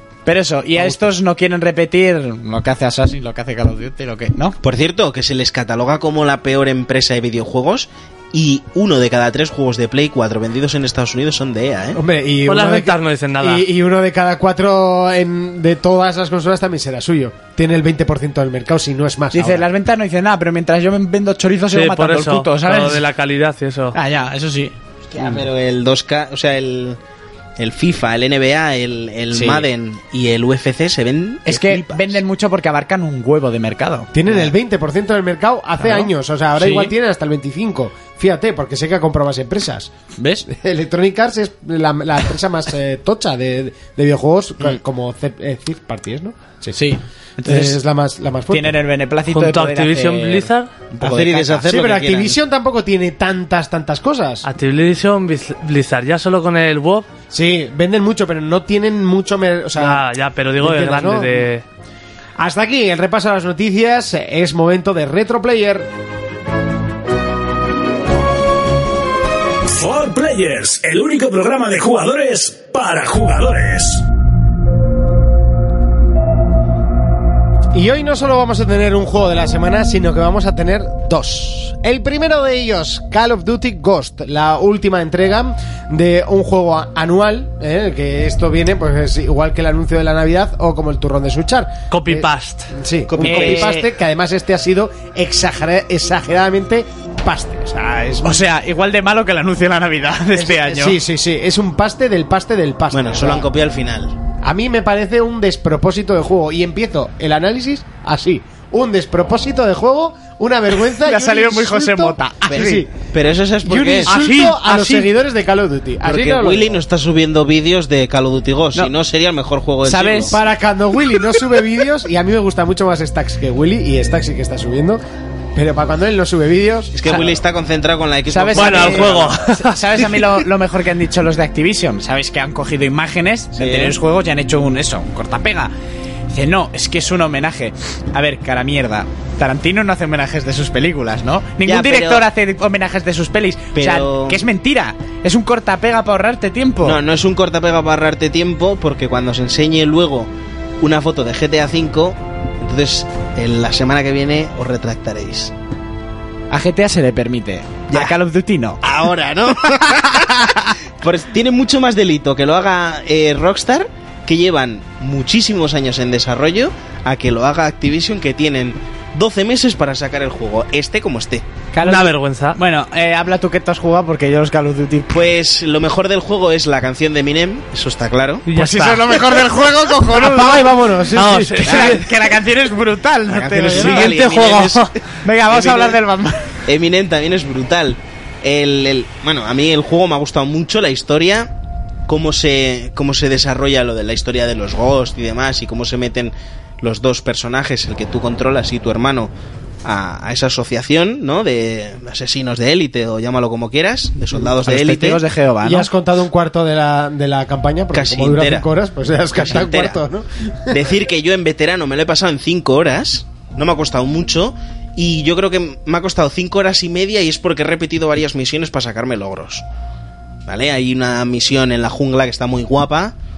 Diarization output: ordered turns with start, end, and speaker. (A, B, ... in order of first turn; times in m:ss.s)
0:00.3-0:04.6 A
0:00.8-0:01.0 B
0:04.6-0:12.0 C
0:12.0-0:19.7 B
0:12.5-0:13.6 D
0:19.3-0:23.0 A
0:21.7-0:24.0 D
0:23.9-0:24.7 A
0:25.1-0:27.0 C
0:27.6-0:32.2 C
0:29.3-0:29.7 A
0:31.5-0:34.5 A
0:34.1-0:39.9 B
0:35.8-0:36.9 A
0:40.2-0:40.5 A
0:40.5-0:46.8 B
0:46.7-0:47.8 A
0:47.4-0:48.8 B
0:48.5-0:51.7 A
0:49.3-0:50.7 D
0:51.0-0:52.4 C
0:51.7-0:54.5 B
0:54.4-0:57.1 D
0:57.3-1:00.0 B
0:59.8-1:01.6 D
1:00.6-1:01.4 B
1:02.4-1:05.9 B
1:09.6-1:14.0 E
1:17.7-1:38.3 B
1:31.9-1:32.7 D
1:33.1-1:33.8 C
1:33.2-1:33.9 A
1:38.2-1:41.0 A
1:40.4-1:43.4 B
1:42.9-1:44.2 C
1:44.4-1:52.9 B
1:51.0-1:52.8 A
1:52.5-1:54.1 C
1:53.6-1:56.8 B
1:54.1-1:55.1 D
1:54.1-1:54.5 A
1:56.0-2:00.4 C
1:59.8-2:00.4 A
2:00.3-2:05.0 B
2:05.6-2:06.9 B
2:06.9-2:09.4 C
2:08.3-2:15.7 A
2:08.6-2:10.4 D
2:13.6-2:14.0 C
2:16.3-2:27.0 A
2:21.6-2:22.3 C
2:23.8-2:24.4 C
2:26.8-2:35.5 C
2:36.5-2:38.8 A
2:37.9-2:38.2 C
2:38.8-2:51.5 C
2:39.7-2:40.6 A
2:51.7-2:55.2 A
2:51.8-2:52.6 D
2:55.1-2:58.5 C
2:58.5-2:59.2 D
2:58.5-3:00.8 A
3:00.1-3:01.9 B
3:01.1-3:02.1 D
3:01.6-3:04.2 A
3:03.3-3:05.0 C
3:03.7-3:04.9 D
3:05.2-3:06.6 A
3:05.5-3:06.0 C
3:06.7-3:11.5 C
3:12.1-3:19.3 C
3:19.8-3:25.2 C
3:24.6-3:25.9 A
3:25.6-3:30.8 B
3:27.9-3:28.7 C
3:29.4-3:30.0 C
3:30.7-3:39.6 C
3:40.5-3:43.2 C